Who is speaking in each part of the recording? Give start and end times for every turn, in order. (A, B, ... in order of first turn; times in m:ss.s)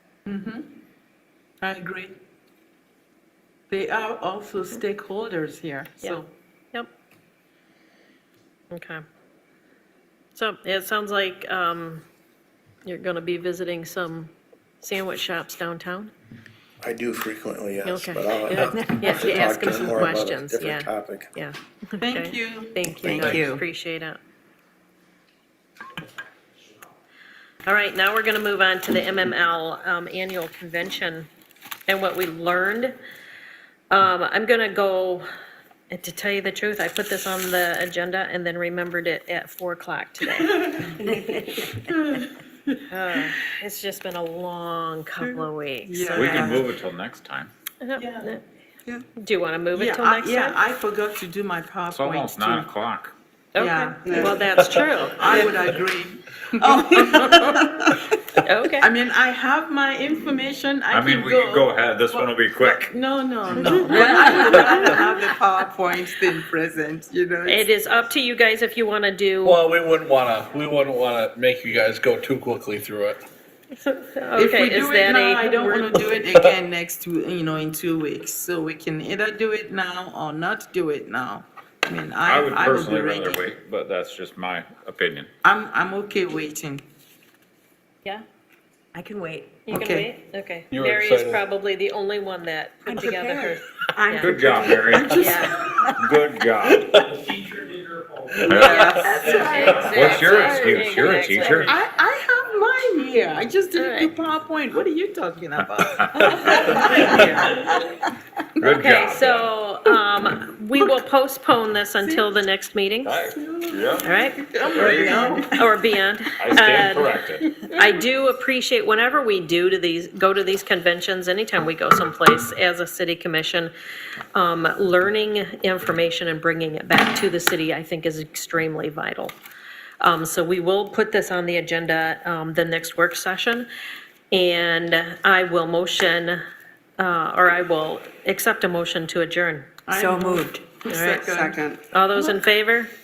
0:00.2-0:00.7 A
0:01.6-0:02.1 A
0:03.7-0:06.3 A
0:08.7-0:09.0 B
0:10.3-0:12.0 B
0:12.8-0:16.1 B
0:16.8-0:21.3 C
0:17.8-0:24.2 B
0:18.6-0:20.1 D
0:22.0-0:22.9 A
0:22.9-0:23.4 C
0:23.1-0:23.6 D
0:27.6-0:31.3 B
0:31.9-0:33.0 B
0:33.9-0:35.2 B
0:35.9-0:41.5 B
0:40.5-0:40.9 A
0:41.7-0:42.8 A
0:42.9-0:46.5 B
0:45.8-0:46.7 A
0:46.1-0:47.5 E
0:47.8-0:48.4 B
0:48.0-0:48.4 A
0:49.2-0:50.6 B
0:49.7-0:52.7 A
0:51.9-0:53.1 E
0:53.5-0:55.2 B
0:53.6-0:58.0 A
0:54.0-0:54.6 D
0:54.5-0:54.8 F
0:55.3-0:55.6 D
0:56.6-0:57.4 D
0:58.4-0:58.9 B
0:58.8-1:07.6 A
1:00.9-1:02.9 E
1:03.8-1:05.1 B
1:07.4-1:09.6 B
1:09.4-1:13.2 F
1:13.8-1:16.0 B
1:14.4-1:23.5 A
1:22.2-1:25.3 E
1:25.4-1:26.8 A
1:28.9-1:29.6 D
1:29.6-1:34.4 B
1:29.7-1:30.1 A
1:30.7-1:31.4 F
1:32.8-1:35.9 D
1:34.2-1:37.1 E
1:34.6-1:35.8 A
1:35.1-1:35.6 B
1:36.9-1:37.2 F
1:38.5-1:38.9 E
1:38.5-1:47.9 A
1:38.5-1:41.7 B
1:38.9-1:39.3 F
1:39.5-1:41.7 E
1:43.7-1:44.1 B
1:46.8-1:47.2 F
1:48.6-1:49.5 E
1:48.7-1:53.2 B
1:53.0-1:54.1 E
1:53.3-1:55.6 A
1:54.0-1:54.4 B
1:54.7-1:55.4 E
1:54.8-1:55.3 D
1:55.3-2:03.7 B
1:56.4-1:57.5 E
1:57.5-1:57.9 A
2:04.3-2:09.4 B
2:10.0-2:13.7 B
2:14.3-2:16.4 B
2:17.0-2:19.8 B
2:19.9-2:22.3 A
2:19.9-2:21.8 D
2:20.8-2:21.4 B
2:21.9-2:22.9 B